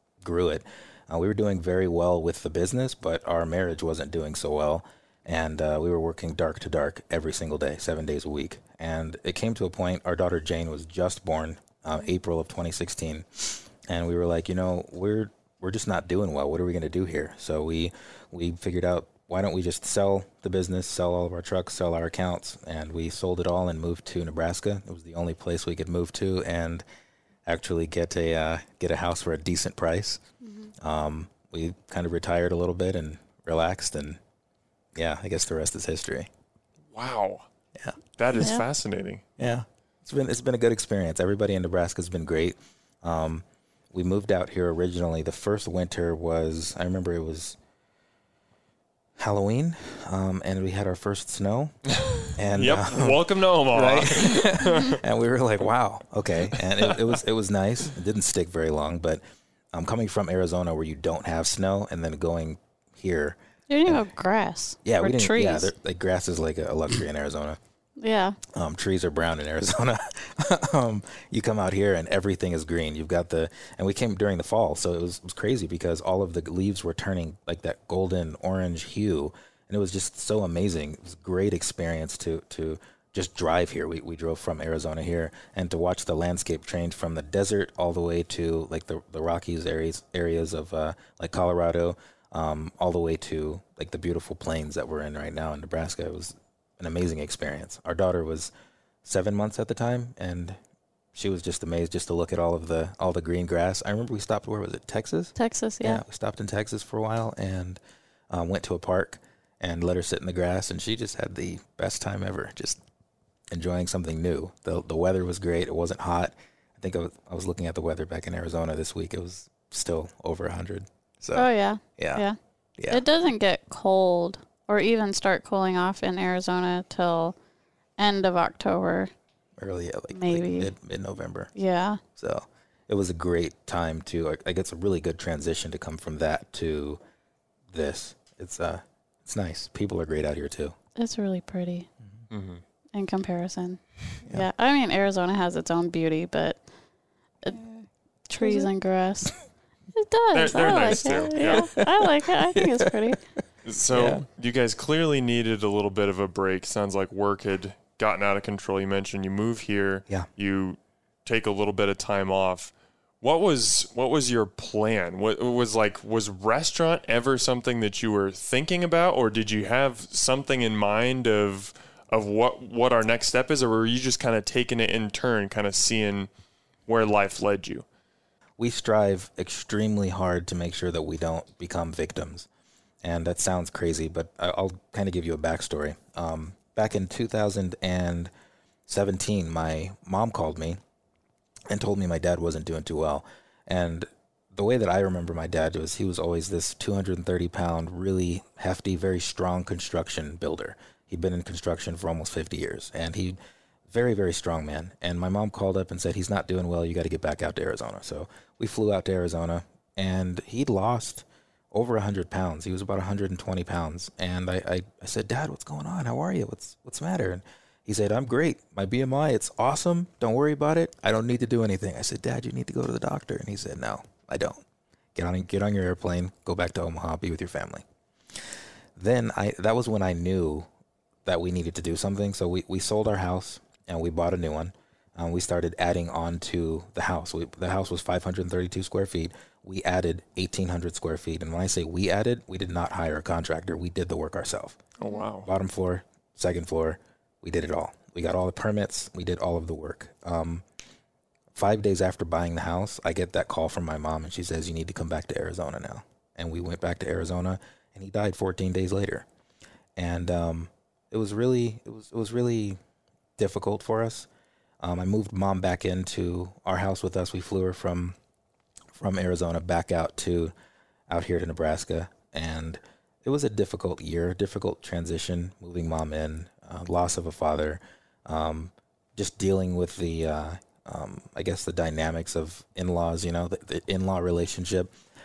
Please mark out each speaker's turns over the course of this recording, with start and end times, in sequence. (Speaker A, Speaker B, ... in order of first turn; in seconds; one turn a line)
Speaker A: 0.2-26.8
Speaker A: 27.5-30.2
Speaker B: 30.4-30.7
Speaker A: 30.8-34.2
Speaker A: 35.0-36.3
Speaker C: 36.9-37.4
Speaker C: 38.2-39.2
Speaker B: 38.4-38.6
Speaker A: 39.4-47.6
Speaker A: 49.2-51.7
Speaker C: 51.9-55.0
Speaker A: 52.4-59.2
Speaker C: 56.5-57.0
Speaker A: 59.7-64.0
Speaker B: 63.7-65.7
Speaker A: 64.8-67.6
Speaker B: 68.0-68.4
Speaker A: 68.5-98.5
Speaker A: 99.0-100.6
Speaker A: 101.1-107.8
Speaker B: 105.4-106.0
Speaker A: 108.3-112.8
Speaker A: 113.5-122.2
Speaker B: 121.3-122.4
Speaker A: 122.8-123.0
Speaker B: 122.9-127.4
Speaker B: 128.0-129.1
Speaker A: 129.6-131.5
Speaker B: 130.1-130.7
Speaker B: 131.6-132.0
Speaker A: 132.2-137.0
Speaker A: 137.7-140.8
Speaker B: 141.0-141.9
Speaker C: 142.3-142.6
Speaker B: 142.9-146.6
Speaker A: 147.5-147.9
Speaker B: 148.3-149.4
Speaker A: 148.4-148.7
Speaker B: 149.9-153.2
Speaker C: 150.3-151.7
Speaker A: 150.9-153.2
Speaker C: 153.7-176.3
Speaker A: 153.9-154.3
Speaker C: 176.9-177.8
Speaker A: 178.6-182.5
Speaker A: 183.0-188.3
Speaker A: 188.9-190.8
Speaker A: 191.7-203.4
Speaker A: 203.9-224.6
Speaker A: 225.2-227.8
Speaker A: 229.0-230.7
Speaker A: 231.2-244.8
Speaker C: 245.0-245.5
Speaker A: 245.4-250.7
Speaker A: 251.6-259.3
Speaker A: 260.0-262.8
Speaker A: 263.4-264.3
Speaker A: 264.8-268.2
Speaker A: 268.9-270.5
Speaker A: 271.1-284.9